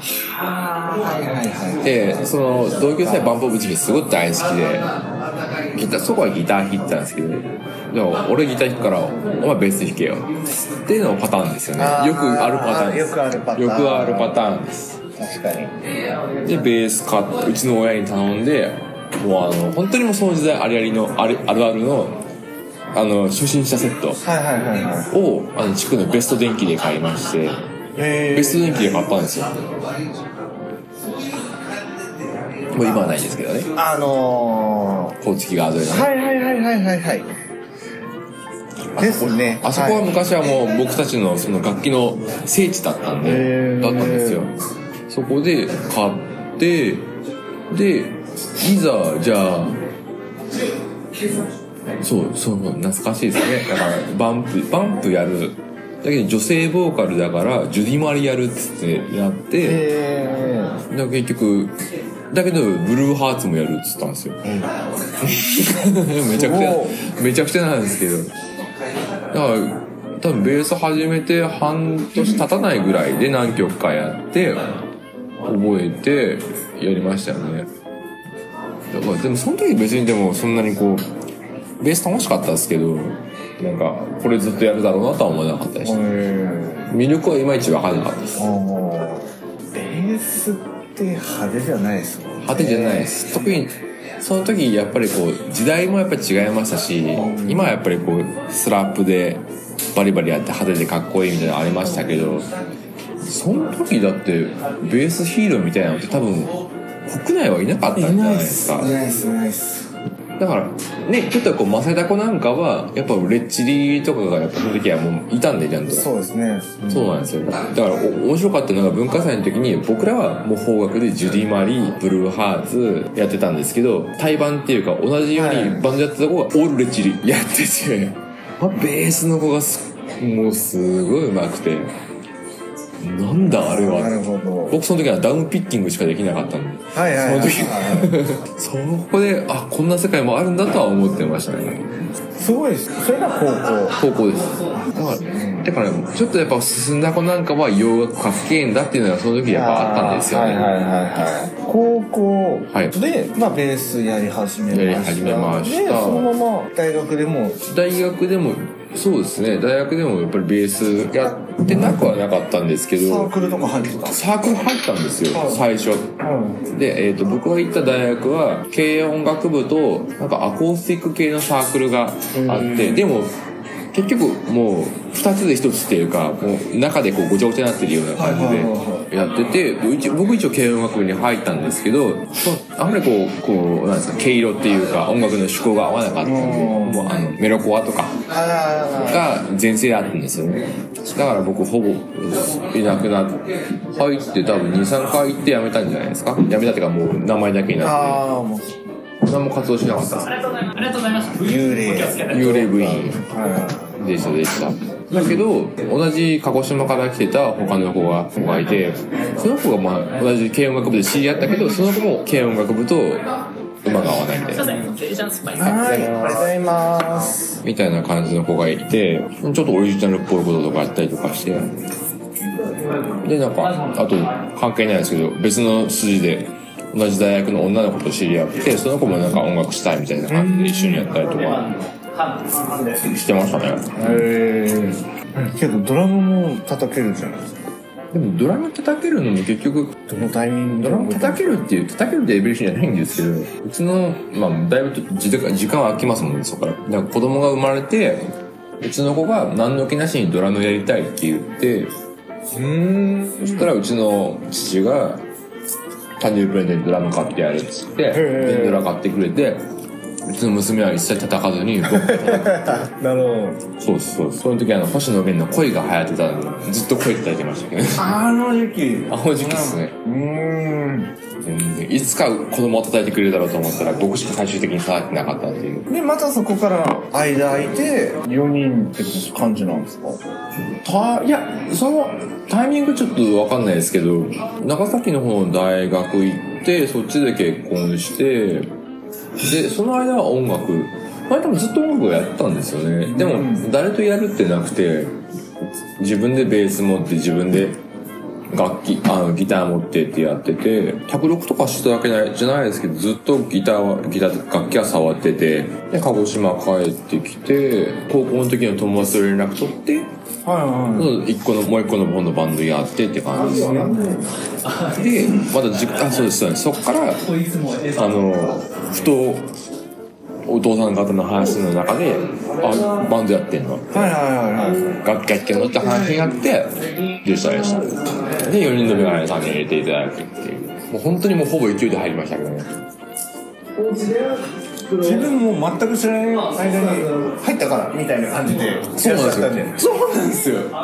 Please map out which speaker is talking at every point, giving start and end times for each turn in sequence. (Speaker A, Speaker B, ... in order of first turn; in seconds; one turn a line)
Speaker A: 0.2-2.3
Speaker B: 1.8-4.9
Speaker A: 3.0-3.4
Speaker B: 5.7-15.0
Speaker A: 11.8-14.5
Speaker A: 15.2-15.7
Speaker B: 16.4-22.2
Speaker B: 22.9-24.2
Speaker A: 24.2-25.1
Speaker B: 25.1-27.6
Speaker A: 27.9-29.1
Speaker B: 28.3-29.5
Speaker B: 32.7-33.7
Speaker A: 32.8-33.2
Speaker A: 33.7-35.2
Speaker B: 35.2-36.1
Speaker A: 35.8-37.3
Speaker B: 39.0-44.5
Speaker A: 39.0-40.1
Speaker A: 43.2-44.5
Speaker B: 45.1-47.1
Speaker B: 47.7-49.8
Speaker B: 52.0-59.8
Speaker A: 59.6-60.8
Speaker B: 60.9-61.7
Speaker B: 62.3-64.4
Speaker A: 64.4-64.7
Speaker B: 65.2-68.3
Speaker A: 66.2-67.0
Speaker B: 69.3-74.7
Speaker B: 75.4-77.7
Speaker B: 78.9-81.0
Speaker B: 81.8-86.0
Speaker A: 85.8-86.9
Speaker B: 86.9-88.4
Speaker A: 88.3-93.6
Speaker B: 92.4-102.5
Speaker A: 97.1-97.8
Speaker A: 101.9-102.3
Speaker B: 103.2-108.9
Speaker A: 107.9-109.9
Speaker B: 110.4-116.1
Speaker A: 115.9-117.2
Speaker B: 116.9-131.9
Speaker A: 125.3-125.9
Speaker B: 133.0-134.2
Speaker A: 133.5-134.8
Speaker B: 134.7-142.0
Speaker A: 136.9-138.2
Speaker A: 142.4-143.9
Speaker B: 143.9-150.7
Speaker A: 144.7-145.7
Speaker A: 149.5-157.6
Speaker B: 152.7-152.9
Speaker B: 154.7-156.3
Speaker B: 157.6-163.3
Speaker A: 161.2-162.1
Speaker A: 163.0-164.7
Speaker B: 164.1-166.1
Speaker A: 165.3-165.7
Speaker A: 166.2-166.6
Speaker B: 166.7-173.3
Speaker A: 172.3-173.1
Speaker B: 173.9-188.2
Speaker A: 178.2-179.1
Speaker A: 186.2-187.3
Speaker A: 188.3-189.3
Speaker B: 189.0-198.2
Speaker A: 197.8-198.8
Speaker B: 199.2-201.3
Speaker A: 201.3-204.0
Speaker B: 202.2-203.2
Speaker B: 204.0-213.2
Speaker B: 213.8-216.2
Speaker A: 215.5-217.5
Speaker B: 217.6-221.7
Speaker B: 223.2-231.7
Speaker A: 230.3-231.3
Speaker B: 232.8-234.2
Speaker A: 234.0-237.6
Speaker B: 238.1-240.0
Speaker A: 240.1-241.6
Speaker B: 240.8-248.3
Speaker B: 248.8-251.9
Speaker A: 252.5-253.7
Speaker B: 253.4-255.2
Speaker B: 256.2-259.6
Speaker A: 258.1-258.9
Speaker B: 260.2-262.9
Speaker A: 261.8-263.6
Speaker B: 263.8-268.1
Speaker A: 267.9-271.1
Speaker B: 269.1-269.9
Speaker B: 271.4-275.9
Speaker A: 275.9-280.2
Speaker B: 280.8-288.7
Speaker B: 289.4-295.1
Speaker A: 293.1-293.7
Speaker B: 296.0-297.8
Speaker B: 298.5-310.1
Speaker A: 310.4-311.1
Speaker B: 310.9-313.9
Speaker A: 313.4-314.3
Speaker B: 314.9-317.2
Speaker B: 317.9-319.5
Speaker B: 320.4-324.1
Speaker A: 323.9-325.0
Speaker B: 324.9-332.7
Speaker A: 334.9-339.8
Speaker B: 338.9-340.7